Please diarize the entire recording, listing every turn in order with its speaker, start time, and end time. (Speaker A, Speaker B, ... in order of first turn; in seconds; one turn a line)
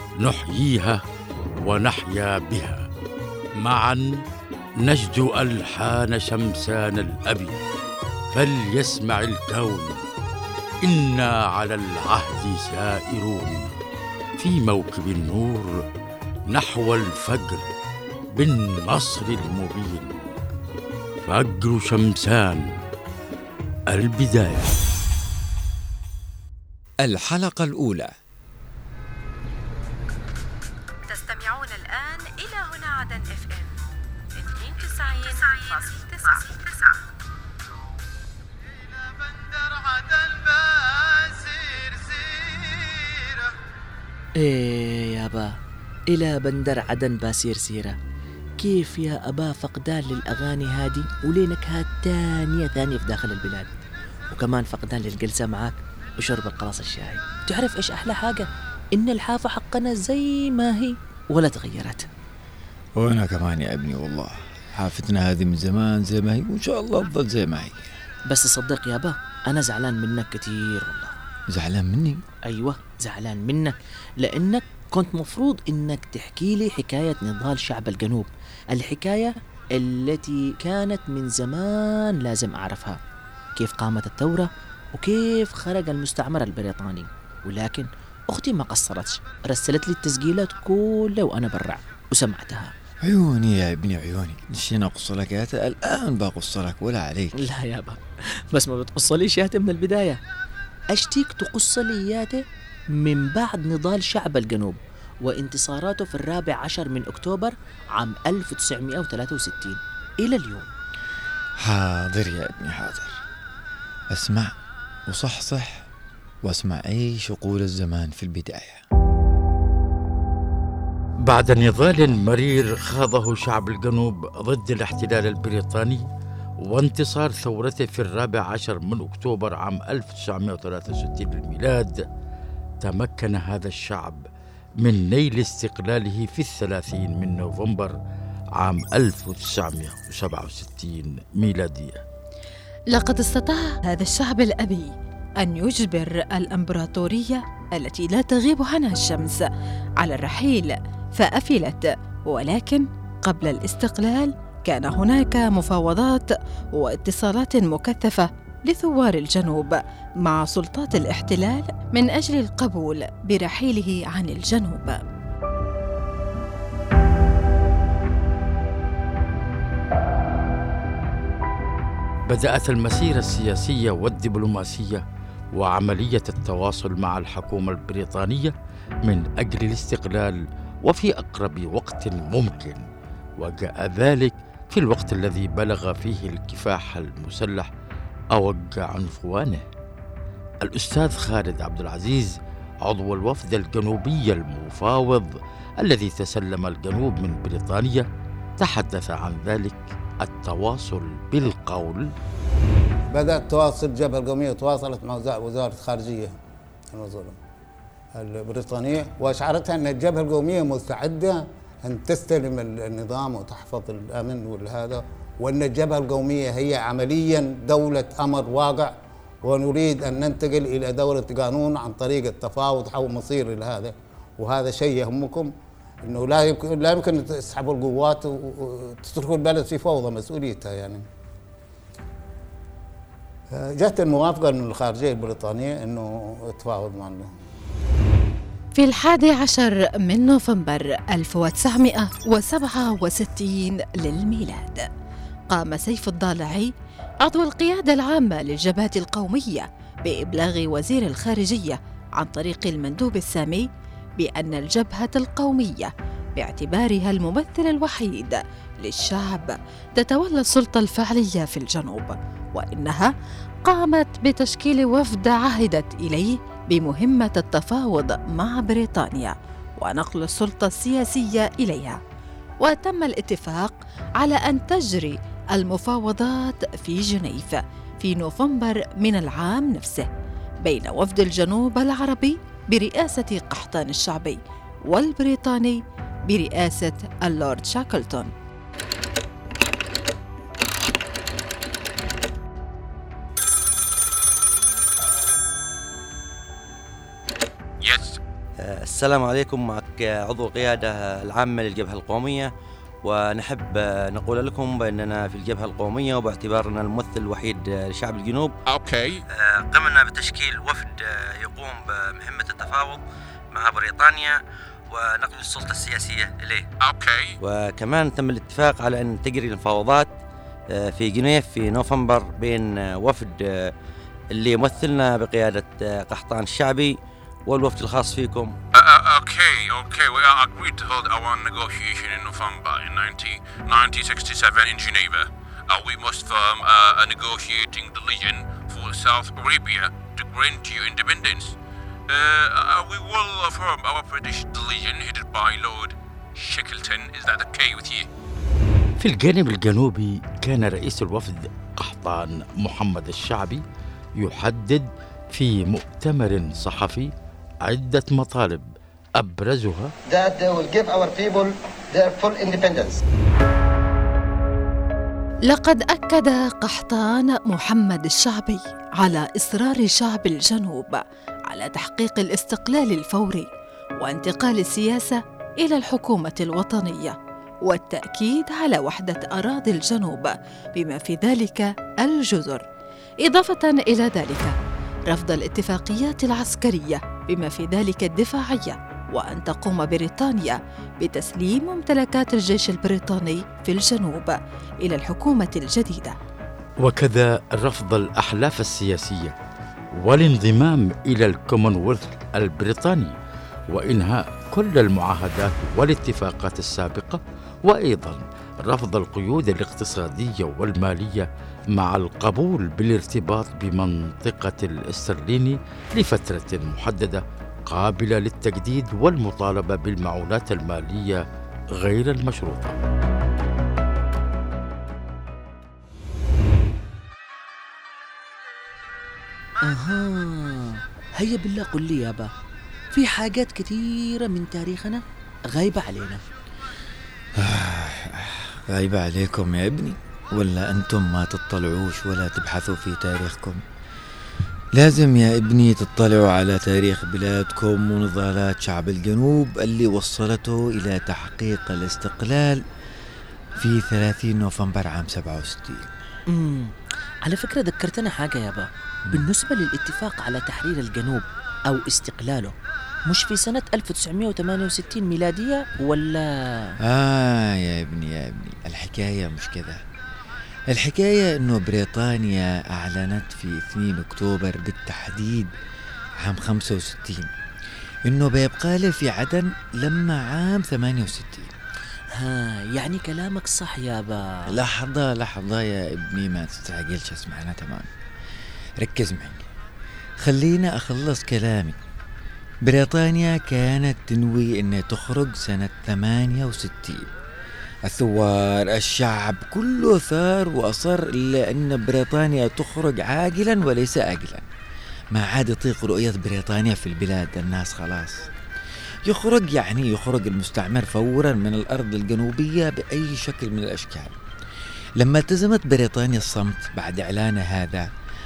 Speaker A: 0.2-1.0
Speaker A: 1.6-2.9
Speaker A: 3.6-4.2
Speaker A: 4.8-7.6
Speaker A: 8.3-10.0
Speaker A: 10.8-13.7
Speaker A: 14.4-15.8
Speaker A: 16.5-17.6
Speaker A: 18.3-20.1
Speaker A: 21.2-22.6
Speaker A: 23.9-24.7
Speaker B: 27.0-28.1
Speaker C: 31.1-33.8
Speaker C: 34.3-36.9
Speaker D: 44.4-45.5
Speaker D: 46.1-48.0
Speaker D: 48.6-53.7
Speaker D: 54.3-62.1
Speaker B: 63.0-67.9
Speaker D: 68.3-71.1
Speaker B: 71.5-72.2
Speaker D: 72.4-83.0
Speaker D: 83.6-92.7
Speaker B: 93.0-97.3
Speaker D: 97.3-100.2
Speaker D: 100.9-102.4
Speaker D: 103.0-110.7
Speaker B: 111.6-113.2
Speaker B: 114.1-114.5
Speaker B: 115.1-115.9
Speaker B: 116.4-118.8
Speaker A: 121.2-126.1
Speaker A: 126.6-132.1
Speaker A: 132.8-134.2
Speaker A: 134.8-138.0
Speaker A: 138.6-142.0
Speaker C: 142.9-149.4
Speaker C: 150.0-165.0
Speaker A: 172.3-175.0
Speaker A: 175.5-178.5
Speaker A: 179.1-182.8
Speaker A: 183.4-187.7
Speaker A: 188.3-189.7
Speaker A: 190.6-198.1
Speaker A: 198.6-202.1
Speaker E: 203.1-206.3
Speaker E: 206.9-207.3
Speaker E: 208.2-225.5
Speaker E: 226.0-231.0
Speaker E: 233.5-237.3
Speaker C: 238.8-244.9
Speaker C: 245.5-246.7
Speaker C: 247.2-253.7
Speaker C: 254.2-263.1
Speaker C: 263.6-272.0
Speaker C: 272.6-280.1
Speaker C: 280.6-288.3
Speaker F: 297.8-298.2
Speaker G: 298.6-302.5
Speaker G: 303.0-308.5
Speaker F: 308.7-309.2
Speaker G: 309.3-316.7
Speaker F: 316.8-317.4
Speaker G: 317.4-320.1
Speaker G: 320.7-323.7
Speaker G: 324.3-328.6
Speaker F: 328.8-341.6
Speaker F: 342.1-348.1
Speaker A: 349.0-353.6
Speaker A: 354.2-357.1
Speaker A: 357.6-358.7
Speaker A: 359.2-359.9
Speaker H: 360.1-363.0
Speaker C: 365.5-373.5
Speaker C: 374.0-382.6
Speaker C: 383.2-384.5
Speaker C: 385.1-396.2
Speaker A: 396.8-399.4
Speaker A: 400.0-403.1
Speaker A: 403.7-421.2
Speaker A: 421.8-422.8
Speaker D: 429.6-432.3
Speaker D: 432.9-436.2
Speaker B: 437.4-443.6
Speaker B: 444.8-452.6
Speaker B: 453.6-455.9
Speaker D: 456.3-462.5
Speaker D: 463.1-466.8
Speaker B: 466.9-469.8
Speaker B: 470.7-475.5
Speaker B: 476.2-477.3
Speaker B: 478.1-481.6
Speaker D: 482.1-484.6
Speaker B: 484.5-487.9
Speaker B: 488.8-489.4
Speaker B: 490.2-491.8
Speaker B: 492.7-497.1
Speaker B: 497.9-504.5
Speaker B: 505.1-508.3
Speaker B: 509.1-514.2
Speaker B: 515.0-517.9